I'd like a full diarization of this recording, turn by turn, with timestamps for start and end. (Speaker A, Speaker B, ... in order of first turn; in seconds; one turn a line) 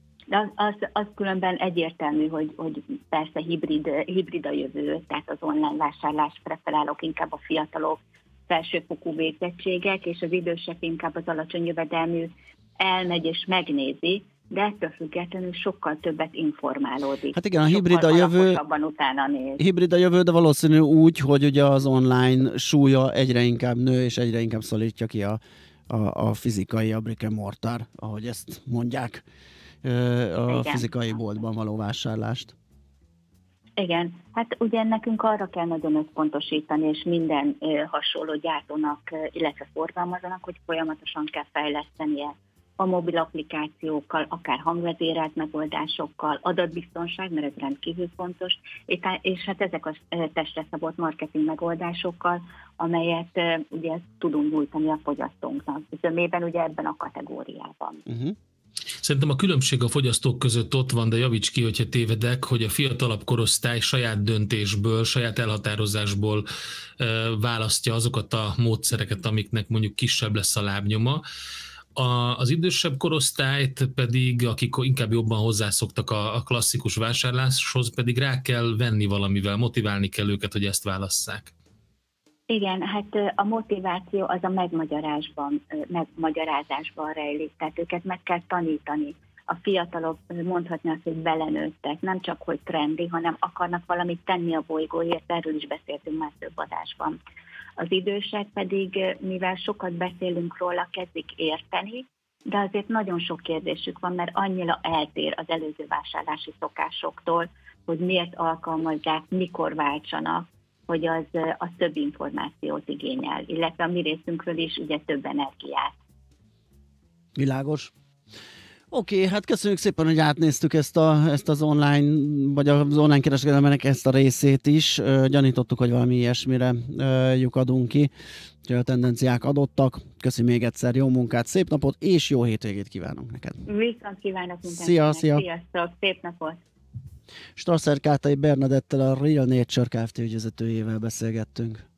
Speaker A: 0.3-19.6
Speaker B: 17.3-18.6
Speaker B: 19.6-29.2
Speaker B: 29.8-32.5
Speaker A: 30.5-30.9
Speaker A: 33.8-58.0
Speaker B: 58.1-58.4
Speaker C: 59.0-66.5
Speaker C: 67.0-71.2
Speaker C: 72.0-81.5
Speaker A: 82.5-97.2
Speaker A: 97.8-115.9
Speaker B: 117.4-117.9
Speaker B: 118.9-128.1
Speaker B: 128.7-133.6
Speaker A: 133.7-136.6
Speaker B: 134.7-135.4
Speaker B: 137.6-141.8